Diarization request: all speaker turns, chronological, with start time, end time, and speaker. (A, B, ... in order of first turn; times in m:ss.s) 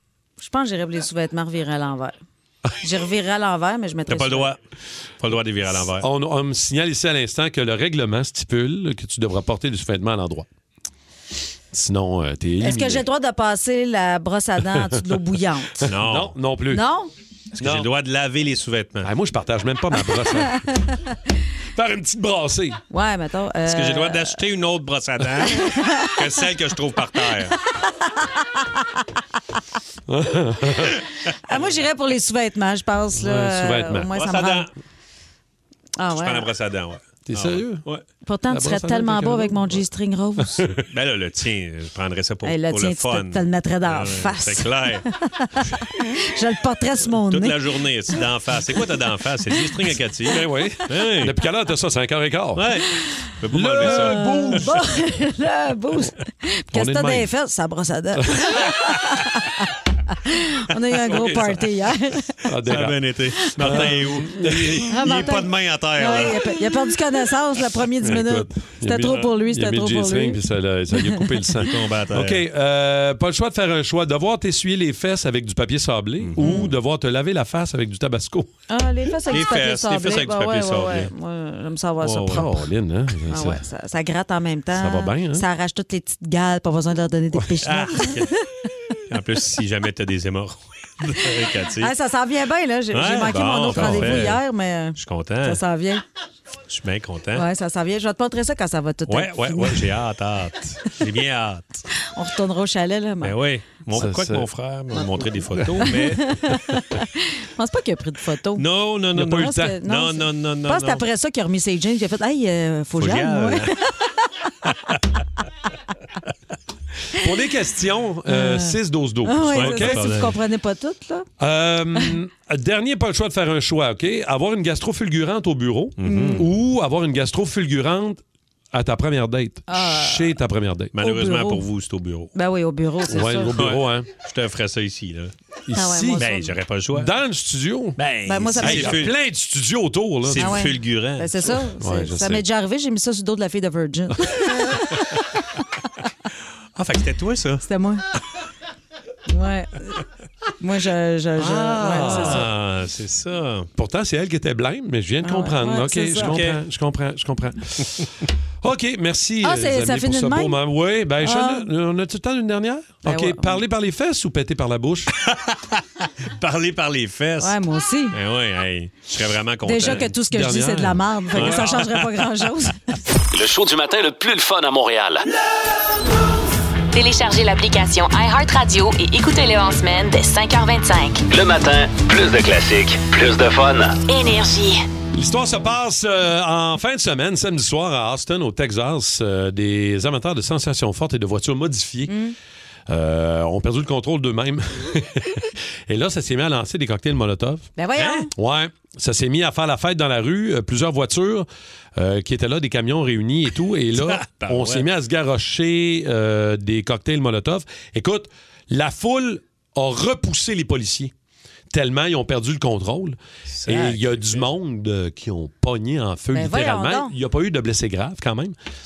0:00.4-0:02.1 A
0:02.8-0:04.5 A
0:04.1-0:04.6 B
0:05.2-0:06.1 B
0:06.0-0:10.5 C
0:11.7-0:13.0 C
0:12.6-0:15.9 A
0:14.7-0:15.2 C
0:15.8-0:16.8 C
0:15.9-0:16.4 B
0:16.7-0:17.1 A
0:17.5-0:19.1 B
0:17.6-0:17.9 C
0:19.0-0:20.7 C
0:21.8-0:22.8 C
0:22.9-0:24.4 A
0:23.7-0:27.6 B
0:25.6-0:26.1 A
0:27.7-0:29.0 A
0:30.1-0:31.0 C
0:31.5-0:34.7 A
0:33.1-0:34.1 C
0:34.1-0:34.7 B
0:36.0-0:36.5 A
0:36.1-0:38.0 B
0:37.3-0:37.8 C
0:38.2-0:40.6 A
0:38.5-0:39.8 C
0:40.6-0:40.8 C
0:40.9-0:45.0 B
0:42.4-0:47.6 A
0:47.2-0:51.4 B
0:50.3-0:52.6 C
0:52.6-0:54.6 B
0:53.5-0:54.8 C
0:53.8-0:59.7 A
0:56.7-0:57.3 C
0:58.2-0:58.6 C
1:00.3-1:02.3 A
1:01.1-1:01.6 C
1:01.1-1:01.5 B
1:02.4-1:05.1 C
1:02.7-1:06.6 B
1:03.6-1:03.9 A
1:04.9-1:10.4 A
1:08.0-1:18.5 C
1:10.9-1:11.4 A
1:11.6-1:12.4 B
1:16.2-1:16.6 B
1:16.4-1:16.7 A
1:18.7-1:22.5 A
1:19.3-1:21.1 B
1:22.0-1:22.5 B
1:22.2-1:23.6 C
1:23.3-1:28.4 A
1:24.7-1:25.5 C
1:27.6-1:28.3 B
1:29.1-1:31.9 B
1:31.8-1:36.0 A
1:32.9-1:34.4 B
1:33.7-1:34.3 C
1:35.0-1:35.6 B
1:36.7-1:37.4 B
1:37.3-1:39.8 A
1:39.1-1:41.8 B
1:42.1-1:43.3 A
1:43.2-1:46.6 B
1:43.9-1:45.9 C
1:45.8-1:48.6 A
1:48.6-1:51.0 B
1:49.1-1:49.8 C
1:49.4-1:54.5 A
1:53.0-1:53.8 B
1:54.7-1:55.0 B
1:57.2-2:00.1 C
1:58.3-2:01.3 A
1:59.5-2:00.4 B
2:01.4-2:10.9 C
2:06.0-2:06.5 B
2:06.0-2:06.5 A
2:09.7-2:10.3 A
2:11.0-2:12.3 B
2:11.0-2:11.6 A
2:12.3-2:13.6 A
2:13.1-2:14.1 C
2:13.2-2:15.3 B
2:15.7-2:16.3 C
2:15.7-2:16.5 A
2:16.2-2:17.1 B
2:16.9-2:18.0 C
2:18.0-2:19.1 B
2:18.3-2:19.0 A
2:18.6-2:20.6 C
2:20.3-2:21.6 B
2:20.4-2:24.8 A
2:21.8-2:22.4 C
2:26.8-2:27.6 B
2:27.6-2:28.0 A
2:29.3-2:30.0 A
2:30.6-2:32.4 A
2:31.4-2:33.7 B
2:31.8-2:32.5 C
2:33.8-2:38.0 C
2:35.2-2:36.4 A
2:36.2-2:36.6 B
2:38.6-2:45.1 C
2:39.4-2:40.6 A
2:41.2-2:41.7 A
2:43.0-2:43.6 A
2:45.2-2:47.6 B
2:47.4-2:48.1 A
2:48.1-2:50.1 B
2:49.7-2:52.8 A
2:50.3-2:51.6 C
2:51.4-2:52.2 B
2:53.3-2:55.2 D
2:56.9-3:01.2 E
3:01.3-3:04.0 D
3:04.0-3:04.8 E
3:05.1-3:12.2 C
3:12.1-3:12.4 A
3:12.9-3:17.7 C
3:17.8-3:18.3 A
3:18.0-3:18.2 B
3:18.4-3:31.1 C
3:23.9-3:24.9 B
3:31.7-3:38.6 C
3:33.5-3:34.5 B
3:36.4-3:37.1 A